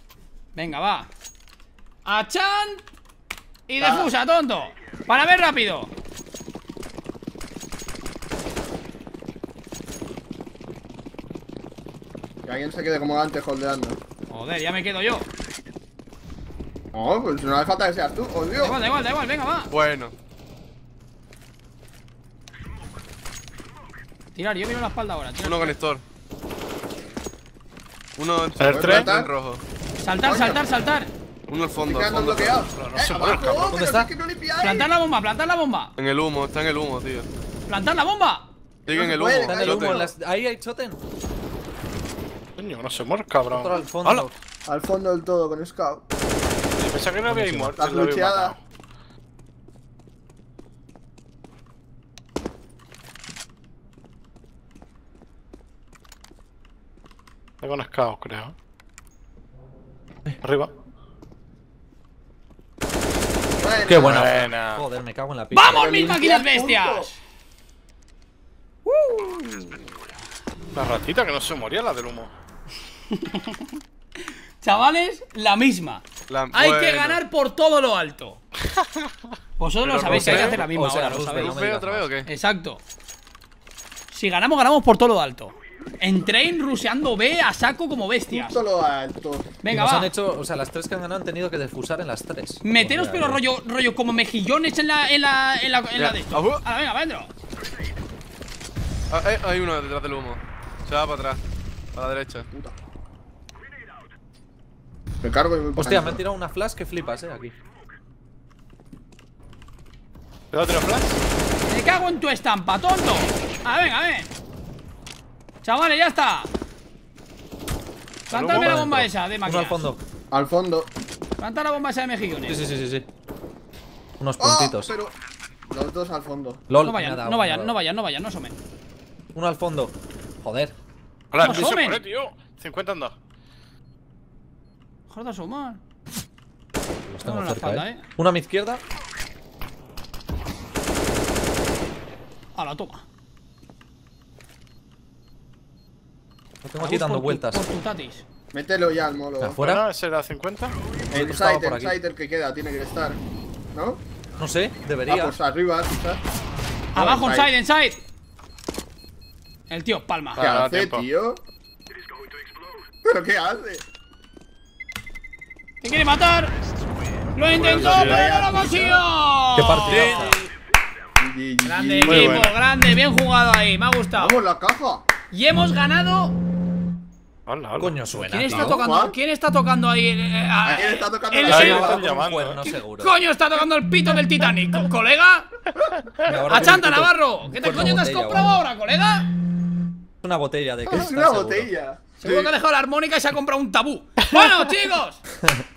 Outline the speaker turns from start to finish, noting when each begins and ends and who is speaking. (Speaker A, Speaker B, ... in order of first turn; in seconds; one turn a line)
Speaker A: 0.5-1.1
Speaker A: 2.0-2.8
Speaker A: 3.7-5.9
Speaker B: 3.8-4.1
Speaker B: 12.4-14.0
Speaker A: 14.3-15.3
Speaker B: 16.9-18.8
Speaker A: 18.6-19.7
Speaker C: 19.7-20.1
Speaker A: 24.3-25.7
Speaker C: 25.4-26.0
Speaker C: 28.2-29.6
Speaker D: 28.6-29.1
Speaker B: 28.6-29.3
Speaker A: 30.0-31.1
Speaker B: 30.2-30.6
Speaker C: 31.5-32.6
Speaker B: 31.8-34.9
Speaker D: 32.7-33.8
Speaker E: 33.7-34.1
Speaker A: 34.6-35.9
Speaker C: 36.0-37.3
Speaker A: 37.7-38.5
Speaker C: 38.9-40.0
Speaker B: 38.9-40.1
Speaker E: 39.5-41.0
Speaker D: 42.6-44.2
Speaker E: 43.5-44.4
Speaker B: 44.7-46.0
Speaker D: 46.7-48.6
Speaker E: 47.3-47.8
Speaker B: 47.8-48.5
Speaker D: 57.6-58.5
Speaker D: 60.4-60.7
Speaker B: 63.6-64.4
Speaker E: 63.9-66.0
Speaker D: 64.0-64.8
Speaker A: 65.5-67.2
Speaker B: 65.7-67.1
Speaker A: 68.8-69.9
Speaker D: 70.7-72.3
Speaker A: 73.1-73.7
Speaker A: 74.6-78.4
Speaker C: 76.3-77.2
Speaker D: 78.7-79.0
Speaker A: 79.6-81.6
Speaker C: 79.8-80.6
Speaker E: 80.0-82.1
Speaker C: 81.3-82.3
Speaker A: 82.2-82.8
Speaker A: 84.1-88.6
Speaker B: 88.3-89.5
Speaker A: 89.6-90.1
Speaker E: 89.7-93.4
Speaker A: 92.6-97.3
Speaker C: 96.0-96.6
Speaker C: 99.1-101.4
Speaker C: 101.9-102.5
Speaker B: 102.5-102.8
Speaker B: 105.2-106.2
Speaker E: 105.8-107.5
Speaker D: 110.5-111.2
Speaker A: 111.7-114.3
Speaker A: 115.6-116.5
Speaker A: 118.3-119.8
Speaker D: 118.3-118.8
Speaker E: 118.5-120.0
Speaker B: 120.3-120.9
Speaker A: 121.4-122.6
Speaker E: 122.5-123.1
Speaker E: 124.2-124.9
Speaker B: 124.4-125.1
Speaker B: 125.7-126.6
Speaker E: 126.7-127.8
Speaker A: 126.8-128.6
Speaker E: 129.3-130.7
Speaker D: 131.3-133.1
Speaker A: 131.4-132.0
Speaker A: 135.1-135.8
Speaker E: 137.1-138.8
Speaker A: 137.2-138.0
Speaker A: 142.5-143.0
Speaker E: 146.6-147.6
Speaker A: 146.8-148.2
Speaker B: 148.5-149.6
Speaker E: 149.4-149.8
Speaker D: 149.6-150.8
Speaker B: 151.1-153.2
Speaker E: 151.1-152.0
Speaker B: 153.7-154.0
Speaker E: 154.4-155.3
Speaker B: 155.1-156.2
Speaker A: 156.9-158.0
Speaker B: 156.9-157.5
Speaker A: 159.7-160.4
Speaker D: 160.4-161.1
Speaker B: 160.4-161.4
Speaker B: 163.0-163.8
Speaker A: 165.8-166.5
Speaker A: 167.3-170.3
Speaker B: 167.5-169.0
Speaker D: 167.7-168.4
Speaker E: 169.6-170.4
Speaker C: 169.9-170.4
Speaker B: 171.2-172.5
Speaker A: 171.6-174.4
Speaker D: 172.0-172.6
Speaker B: 174.2-175.1
Speaker A: 175.3-176.3
Speaker D: 177.4-177.9
Speaker E: 177.8-178.8
Speaker A: 178.1-182.0
Speaker B: 178.5-179.2
Speaker B: 180.6-182.3
Speaker D: 181.4-182.6
Speaker E: 181.5-183.2
Speaker A: 183.0-185.5
Speaker E: 186.2-188.6
Speaker A: 186.5-189.3
Speaker E: 190.2-191.7
Speaker B: 190.9-192.1
Speaker A: 192.2-195.2
Speaker C: 192.2-192.5